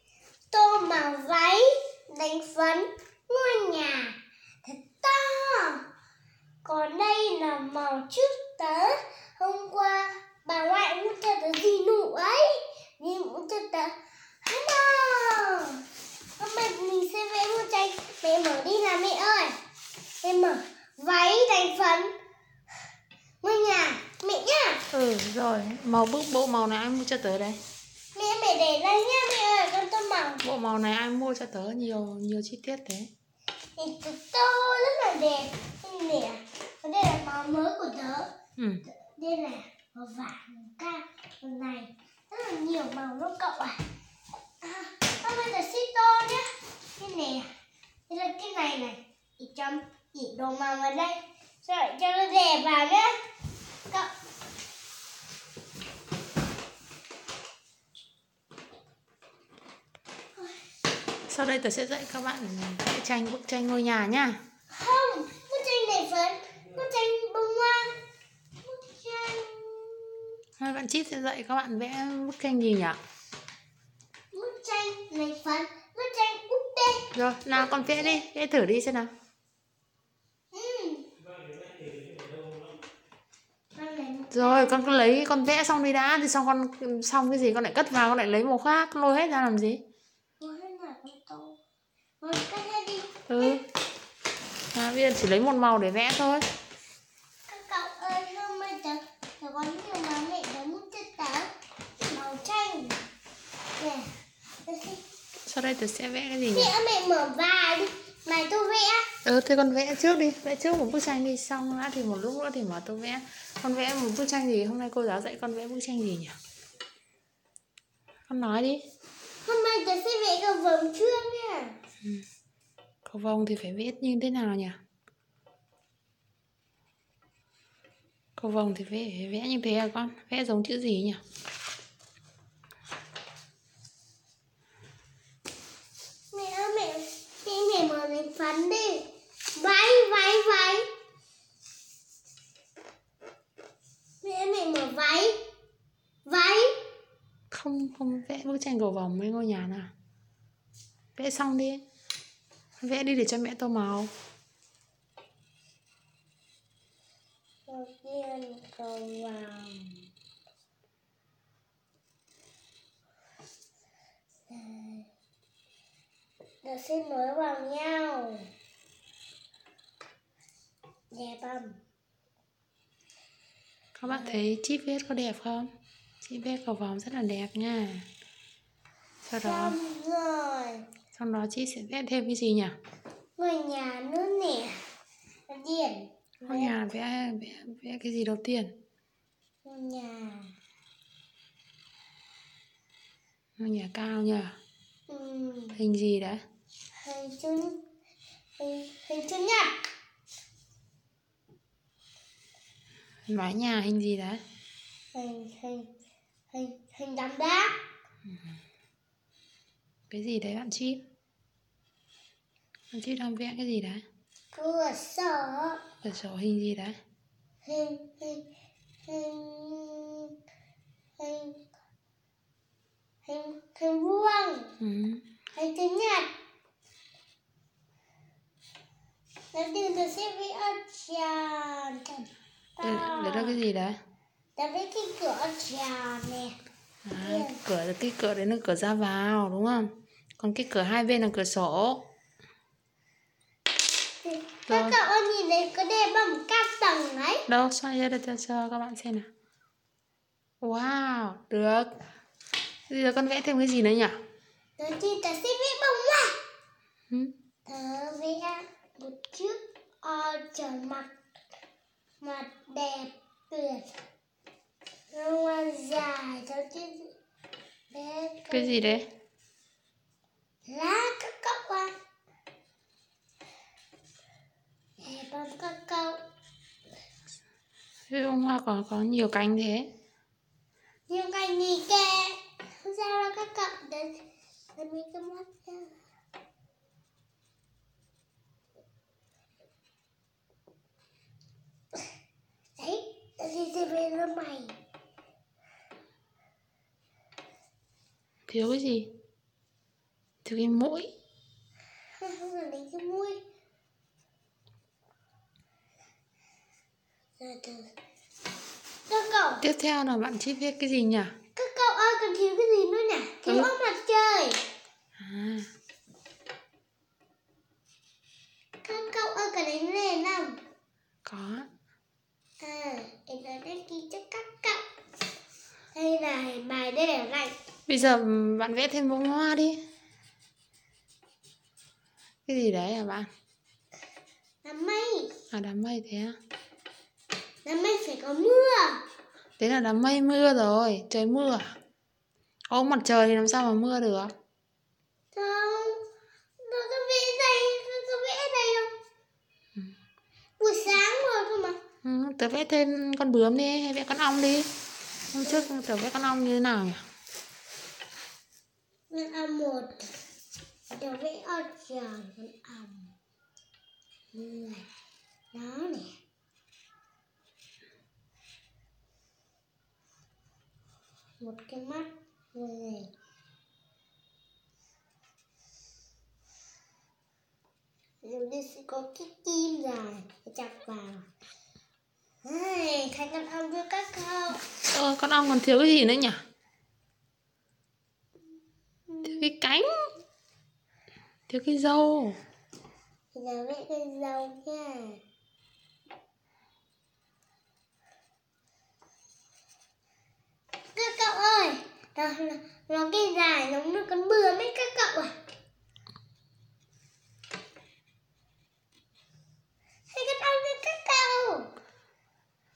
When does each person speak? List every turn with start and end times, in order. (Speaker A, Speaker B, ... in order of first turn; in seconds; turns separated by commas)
Speaker A: 0.5-5.8, Speaker A: 6.7-15.8, Speaker A: 16.4-19.6, Speaker A: 20.2-22.1, Speaker A: 23.4-24.8, Speaker B: 24.9-27.6, Speaker A: 28.1-30.4, Speaker B: 30.4-33.1, Speaker A: 33.8-38.3, Speaker B: 38.6-38.9, Speaker A: 39.0-43.8, Speaker A: 44.6-47.5, Speaker A: 48.1-53.1, Speaker A: 60.4-60.6, Speaker B: 61.3-64.4, Speaker A: 64.7-68.0, Speaker A: 68.6-70.3, Speaker B: 70.6-73.0, Speaker A: 74.3-77.1, Speaker B: 77.1-79.1, Speaker A: 80.5-81.1, Speaker A: 83.8-84.9, Speaker B: 84.3-89.8, Speaker A: 90.4-91.6, Speaker A: 92.2-93.6, Speaker B: 93.3-93.6, Speaker B: 94.7-96.5, Speaker A: 97.5-101.5, Speaker A: 102.0-103.0, Speaker A: 103.8-104.1, Speaker A: 104.7-105.0, Speaker B: 105.5-106.7, Speaker A: 106.5-109.1, Speaker B: 109.2-116.4, Speaker B: 118.3-118.8, Speaker A: 119.5-121.8, Speaker B: 123.0-124.8, Speaker B: 128.4-131.2, Speaker A: 136.3-140.9, Speaker A: 144.2-145.4, Speaker A: 146.3-146.8, Speaker B: 147.5-149.9, Speaker B: 151.2-151.8, Speaker B: 152.8-154.1, Speaker A: 157.7-160.1, Speaker A: 164.5-165.1, Speaker A: 166.6-168.5, Speaker A: 171.1-171.8, Speaker B: 174.0-175.7, Speaker B: 176.2-178.1, Speaker B: 179.2-179.8, Speaker A: 179.4-180.8, Speaker B: 181.2-182.8, Speaker A: 183.4-184.8, Speaker A: 185.5-186.8, Speaker B: 186.4-188.7, Speaker A: 189.7-190.5, Speaker B: 193.6-194.6, Speaker A: 195.1-195.8, Speaker B: 195.8-196.4, Speaker A: 197.0-197.8, Speaker A: 198.6-199.8, Speaker B: 203.3-204.4, Speaker A: 205.1-205.9, Speaker A: 206.5-207.8, Speaker B: 210.1-211.0, Speaker B: 212.9-214.0, Speaker A: 214.5-215.8, Speaker B: 216.0-217.0, Speaker A: 217.7-218.4, Speaker A: 219.1-220.3, Speaker A: 221.2-221.6, Speaker A: 223.2-224.8, Speaker B: 224.8-225.2, Speaker A: 225.6-226.3, Speaker A: 229.5-232.3, Speaker A: 232.8-233.6, Speaker B: 232.8-234.0, Speaker A: 234.6-236.6, Speaker B: 237.1-242.0, Speaker A: 237.2-237.6, Speaker A: 244.2-247.5, Speaker B: 244.7-245.0, Speaker B: 247.5-249.3, Speaker B: 250.6-251.9, Speaker B: 252.9-254.2, Speaker A: 254.8-256.4, Speaker A: 257.7-261.1, Speaker A: 262.2-263.9, Speaker A: 265.1-267.1, Speaker A: 267.9-268.8, Speaker B: 268.5-269.1, Speaker A: 270.7-271.9, Speaker A: 275.0-276.2, Speaker B: 278.1-279.9, Speaker A: 281.1-284.2, Speaker A: 284.8-285.9, Speaker A: 292.8-294.8, Speaker B: 298.5-299.1, Speaker B: 300.4-301.1, Speaker A: 302.2-303.4, Speaker A: 307.4-307.9, Speaker A: 309.1-309.6, Speaker B: 309.6-311.4, Speaker A: 311.6-314.6, Speaker B: 315.2-315.7, Speaker A: 318.8-320.6, Speaker B: 321.3-321.7, Speaker A: 322.6-324.8, Speaker A: 325.9-327.5, Speaker B: 327.9-329.8, Speaker B: 332.5-333.3, Speaker A: 334.6-335.3, Speaker B: 335.5-336.4, Speaker A: 337.6-339.0, Speaker B: 339.6-341.7, Speaker B: 342.7-344.3, Speaker A: 345.3-346.0, Speaker A: 346.6-348.9, Speaker A: 350.6-351.8, Speaker B: 352.0-354.7, Speaker B: 355.3-357.0, Speaker A: 359.1-360.1, Speaker A: 360.9-363.1, Speaker A: 364.3-364.9, Speaker A: 365.5-366.1, Speaker A: 371.4-373.1, Speaker A: 378.2-381.3, Speaker A: 382.4-384.6, Speaker B: 384.9-386.4, Speaker A: 389.1-389.5, Speaker B: 389.2-390.1, Speaker B: 391.5-392.4, Speaker A: 393.3-395.2, Speaker A: 400.9-405.4, Speaker A: 410.1-411.7